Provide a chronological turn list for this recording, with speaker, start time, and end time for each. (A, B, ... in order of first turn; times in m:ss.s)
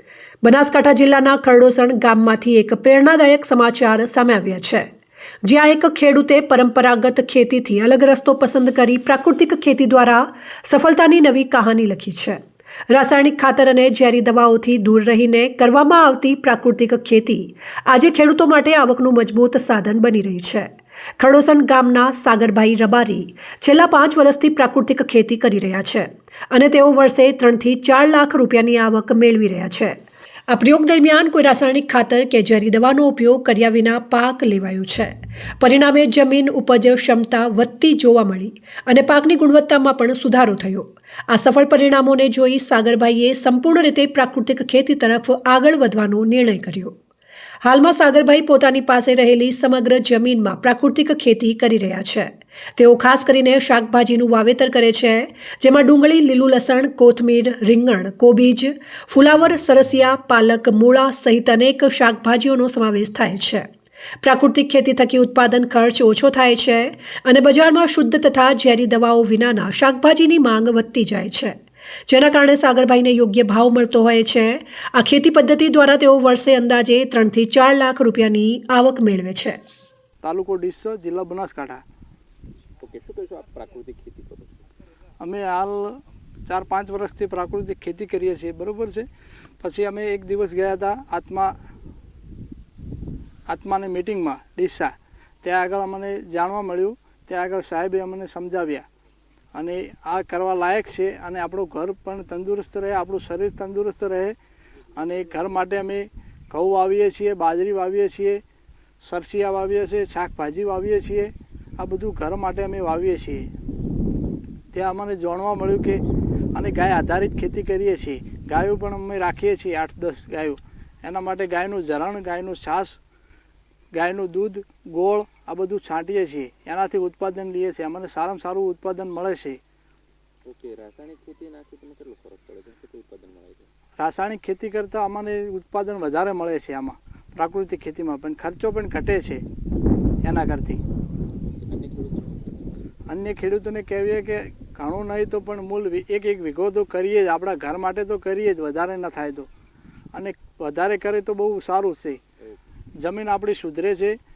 0:00.4-0:04.9 A
0:05.4-0:30.0 A
0:30.5-0:46.9 A
0:47.6-1:03.7 A
1:04.2-1:11.6 A
1:12.1-1:19.6 A
1:20.2-1:21.8 B
1:22.8-1:24.6 C
1:25.2-1:29.1 B
1:29.6-1:31.5 B
1:33.5-1:38.8 B
1:39.5-1:44.3 B
1:44.9-1:48.4 B
1:49.0-1:53.5 B
1:54.7-1:56.0 B
1:56.5-2:03.0 B
2:03.9-2:09.6 B
2:10.4-2:13.7 C
2:14.0-2:19.4 B
2:20.2-2:20.8 B
2:21.6-2:22.7 C
2:23.1-2:29.5 B
2:30.1-2:32.2 B
2:33.0-2:34.2 B